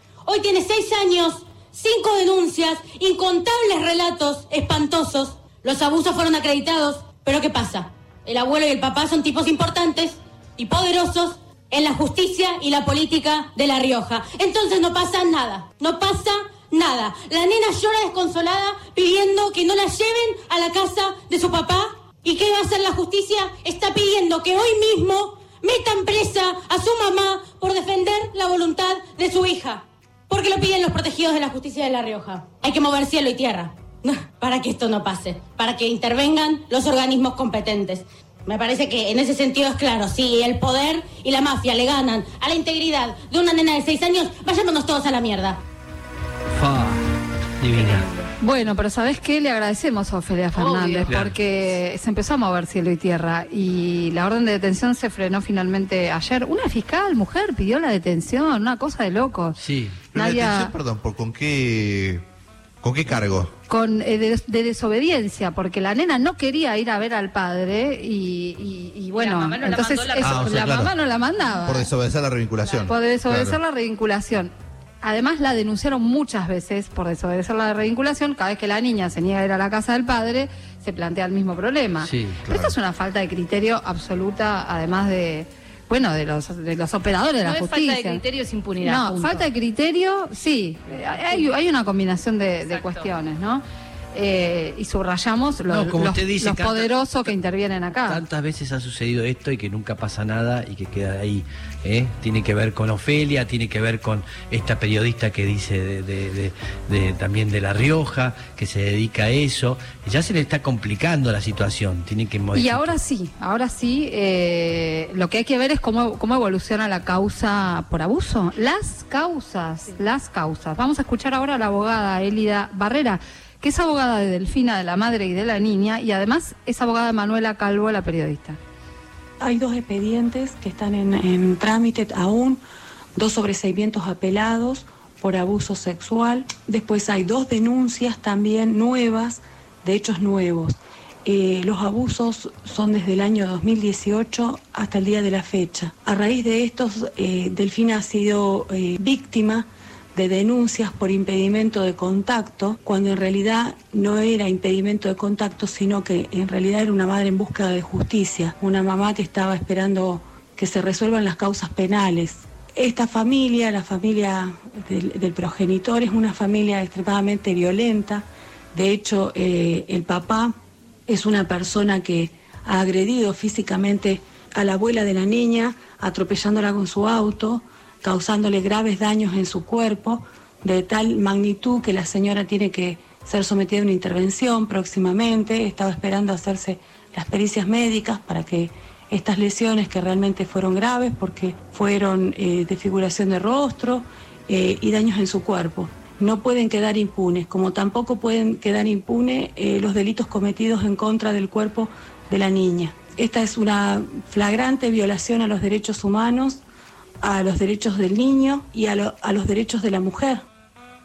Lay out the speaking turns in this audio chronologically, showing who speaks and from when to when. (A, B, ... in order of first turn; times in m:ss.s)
0:00.2-0:45.6 A
0:46.5-0:47.1 B
0:47.6-0:48.1 B
0:47.7-0:48.3 C
0:48.4-0:59.6 D
0:50.5-0:51.2 C
0:51.1-0:51.4 B
0:59.6-1:00.0 B
1:00.1-1:02.2 E
1:00.1-1:00.8 D
1:02.8-1:03.5 E
1:03.7-1:11.9 D
1:09.1-1:10.7 C
1:10.2-1:10.9 E
1:11.6-1:13.6 E
1:12.6-1:13.0 C
1:12.9-1:28.2 D
1:22.0-1:22.4 B
1:22.4-1:22.8 E
1:27.4-1:29.5 C
1:28.8-1:33.6 D
1:32.7-1:33.1 C
1:34.1-1:38.2 D
1:35.7-1:36.9 B
1:38.1-1:52.9 B
1:52.5-2:08.6 D
2:09.4-2:12.6 F
2:13.2-2:50.5 F
2:51.1-3:26.6 F
3:27.2-3:30.4 F